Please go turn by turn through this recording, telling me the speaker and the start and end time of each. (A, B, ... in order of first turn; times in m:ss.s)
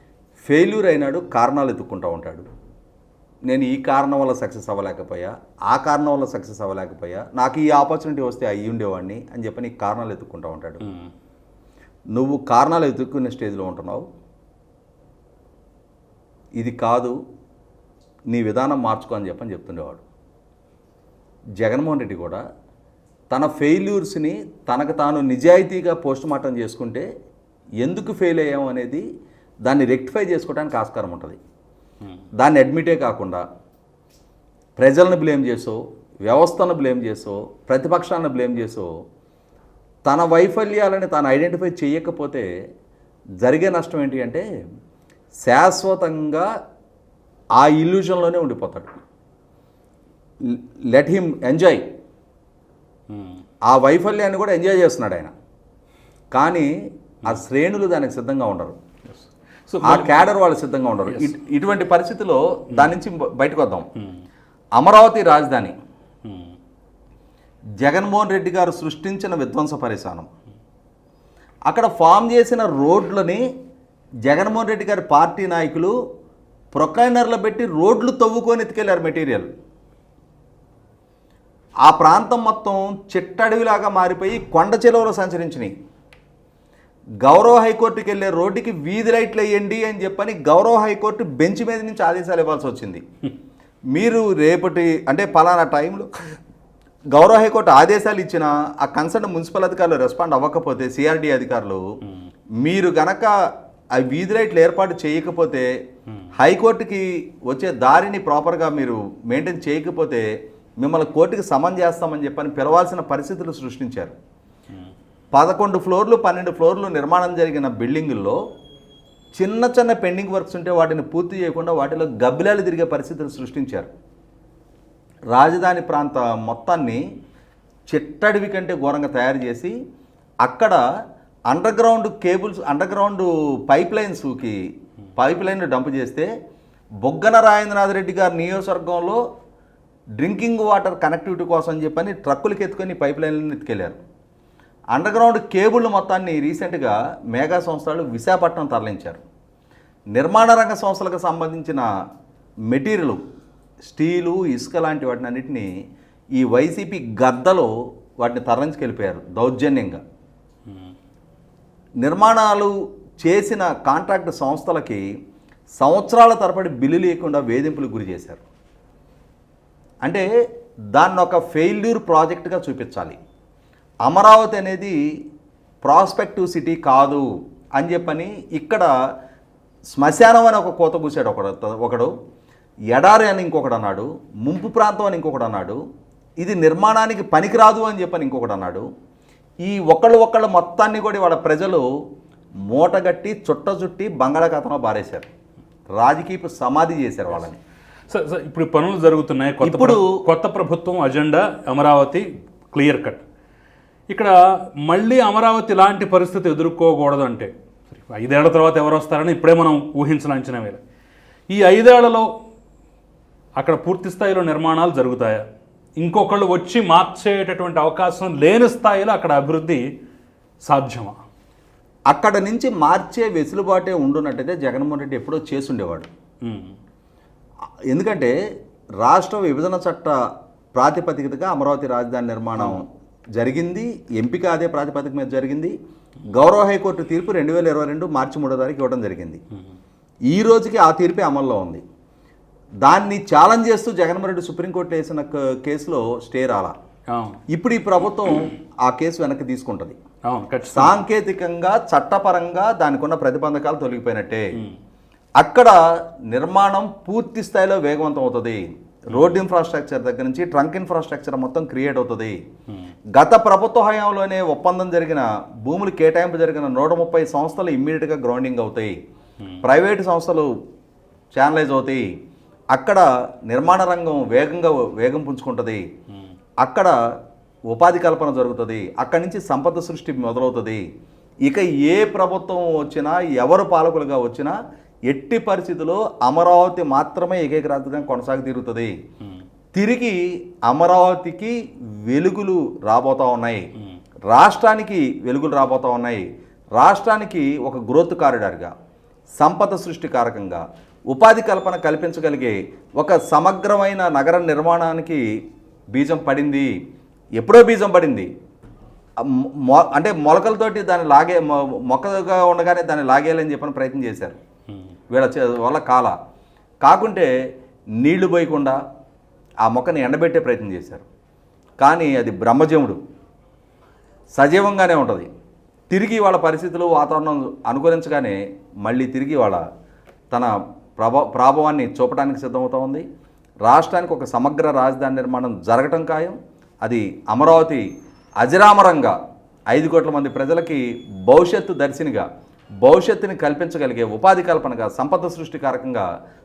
0:00.5-0:02.4 A
0:03.5-0:10.8 A
0:10.8-0:11.1 B
0:12.1-0:14.1 A
0:16.6-0:17.2 A
0:18.3-0:20.0 A
0:21.6-0:22.4 A
0:23.3-0:27.1 A
0:27.8-0:29.0 A
0:29.6-0:31.4 A
0:32.4-0:33.4 A
0:34.8-0:38.9 A
0:40.0-0:42.5 A
0:43.4-0:44.4 A
0:45.4-0:46.5 A
0:47.6-0:48.9 A
0:50.4-0:51.8 A
0:53.1-0:53.4 B
0:53.7-0:55.3 A
0:56.3-0:56.7 A
0:57.2-0:58.8 A
0:59.1-1:00.3 B
0:59.8-1:03.9 A
1:04.8-1:05.7 A
1:06.2-1:06.5 B
1:07.8-1:10.3 A
1:11.7-1:13.4 A
1:14.2-1:15.9 A
1:16.7-1:19.5 A
1:21.8-1:25.7 A
1:27.2-1:33.0 A
1:33.9-1:36.3 A
1:37.1-1:41.8 A
1:42.6-1:43.3 A
1:44.0-1:45.7 A
1:46.4-1:50.2 A
1:50.8-1:54.1 A
1:55.3-1:58.4 A
1:59.4-2:03.9 A
2:05.3-2:07.0 A
2:07.9-2:09.7 A
2:10.4-2:10.8 A
2:11.5-2:14.6 A
2:15.2-2:16.3 A
2:17.0-2:19.2 A
2:20.2-2:24.0 A
2:24.9-2:29.2 A
2:30.1-2:31.8 A
2:32.7-2:33.2 A
2:33.8-2:35.7 A
2:36.4-2:40.0 A
2:42.0-2:45.0 A
2:45.8-2:48.4 A
2:50.9-2:53.2 A
2:54.0-2:55.0 A
2:55.8-2:57.2 A
2:57.8-2:58.9 A
2:59.9-3:02.1 A
3:02.9-3:05.8 A
3:06.4-3:08.8 A
3:09.6-3:11.8 A
3:12.7-3:15.3 A
3:16.0-3:17.6 A
3:18.1-3:23.2 B
3:19.6-3:20.0 A
3:24.8-3:30.8 B
3:31.5-3:32.3 B
3:33.6-3:35.4 B
3:36.0-3:39.8 B
3:40.7-3:41.2 B
3:42.1-3:46.1 A
3:46.4-3:46.8 B
3:47.9-3:48.3 A
3:49.0-3:50.1 A
3:50.8-3:52.9 A
3:52.6-3:52.8 B
3:53.4-3:55.7 A
3:56.3-3:59.4 A
4:00.3-4:01.8 A
4:02.8-4:06.7 A
4:07.1-4:07.4 B
4:07.5-4:10.0 A
4:10.3-4:11.0 B
4:10.7-4:14.5 A
4:15.4-4:15.8 A
4:16.3-4:22.4 A
4:19.1-4:19.4 B
4:23.1-4:28.9 A
4:29.6-4:30.5 A
4:31.3-4:32.1 A
4:32.7-4:35.8 A
4:36.6-4:36.9 A
4:37.7-4:40.8 A
4:41.5-4:44.6 A
4:45.1-4:48.9 A
4:49.7-4:51.5 A
4:52.1-4:53.6 A
4:54.3-4:56.2 A
4:56.8-4:58.7 A
4:59.4-5:05.2 A
5:05.9-5:06.7 A
5:07.4-5:08.3 A
5:09.2-5:14.4 A
5:15.1-5:16.1 A
5:16.8-5:17.3 A
5:18.0-5:18.8 A
5:19.6-5:21.0 A
5:21.8-5:23.0 A
5:24.4-5:25.3 A
5:25.9-5:29.6 A
5:30.3-5:33.0 A
5:33.6-5:37.8 A
5:38.4-5:39.2 A
5:39.7-5:42.3 A
5:42.8-5:46.1 A